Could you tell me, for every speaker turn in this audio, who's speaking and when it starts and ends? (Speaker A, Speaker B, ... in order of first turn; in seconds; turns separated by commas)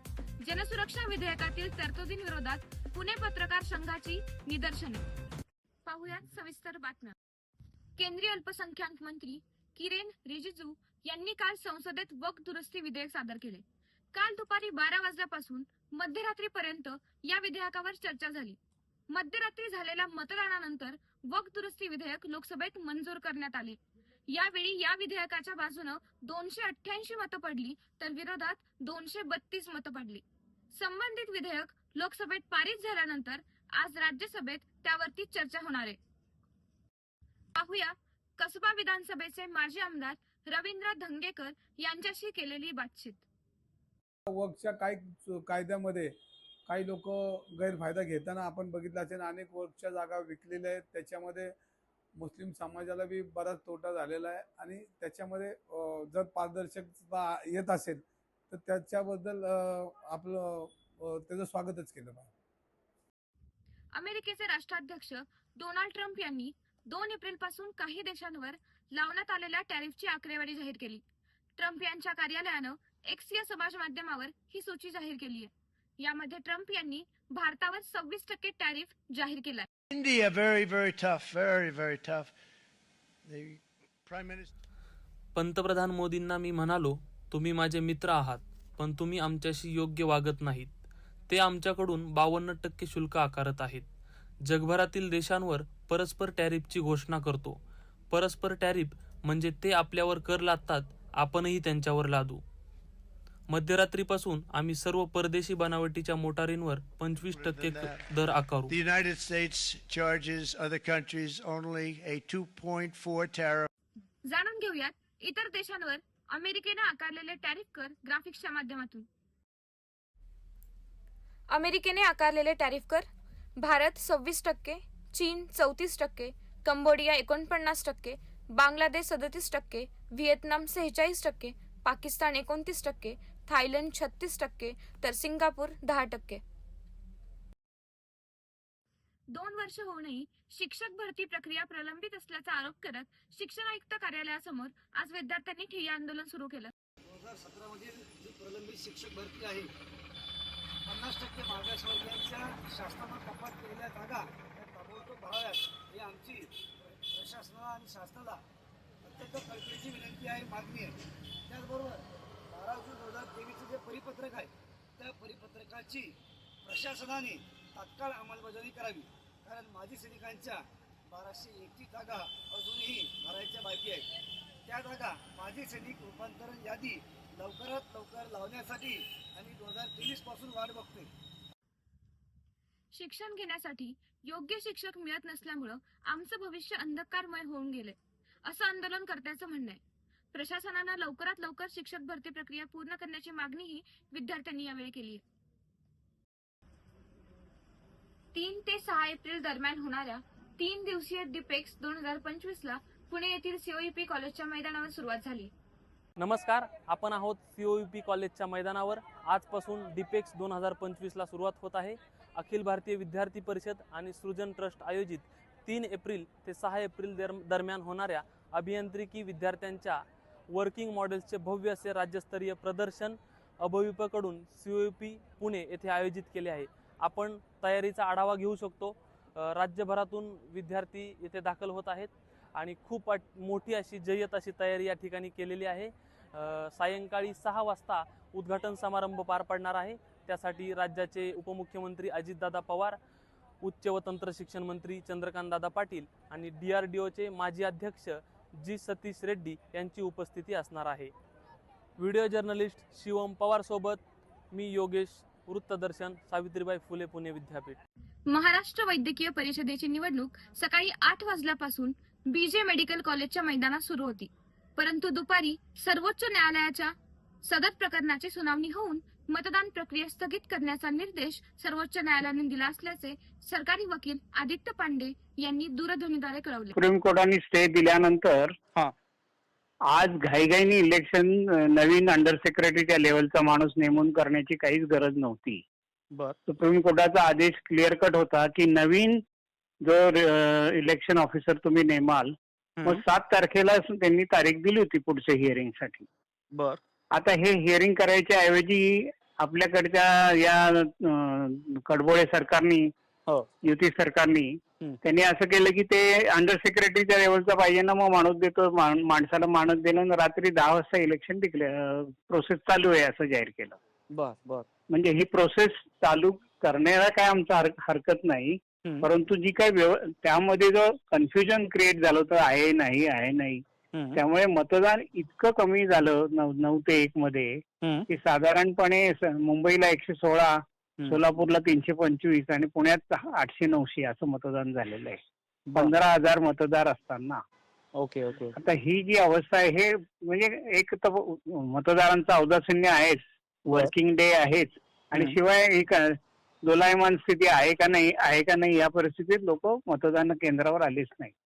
Speaker A: 0.4-5.0, Speaker A: 5.8-7.2, Speaker A: 8.0-18.6, Speaker A: 19.1-36.0, Speaker A: 37.5-43.2, Speaker B: 44.3-51.5, Speaker B: 52.2-62.3, Speaker A: 64.0-71.0, Speaker A: 71.6-79.7, Speaker C: 79.9-82.3, Speaker C: 83.3-84.5, Speaker D: 85.3-90.7, Speaker D: 91.3-93.9, Speaker D: 94.5-97.6, Speaker D: 98.1-102.4, Speaker D: 103.5-108.7, Speaker C: 107.3-108.0, Speaker C: 108.7-113.7, Speaker A: 114.2-119.1, Speaker A: 121.5-136.4, Speaker A: 139.3-146.7, Speaker E: 147.1-149.7, Speaker E: 150.9-158.4, Speaker E: 159.0-166.1, Speaker E: 166.6-174.1, Speaker E: 174.7-181.1, Speaker A: 182.9-189.8, Speaker A: 190.3-195.2, Speaker A: 198.3-205.5, Speaker D: 206.2-243.0, Speaker D: 243.6-251.1, Speaker D: 252.0-254.0, Speaker D: 254.5-257.8, Speaker A: 258.3-266.9, Speaker A: 267.4-276.8, Speaker F: 276.8-278.5, Speaker F: 279.9-285.6, Speaker F: 286.5-289.2, Speaker F: 289.8-292.4, Speaker G: 292.8-293.1, Speaker F: 292.9-296.1, Speaker G: 296.5-296.8, Speaker F: 297.1-302.9, Speaker F: 303.6-304.5, Speaker F: 305.0-313.8, Speaker G: 314.1-314.7, Speaker F: 314.9-323.6, Speaker G: 323.9-324.2, Speaker F: 324.1-335.2, Speaker G: 335.7-335.9, Speaker F: 335.8-337.4, Speaker G: 338.0-338.6, Speaker F: 338.6-351.3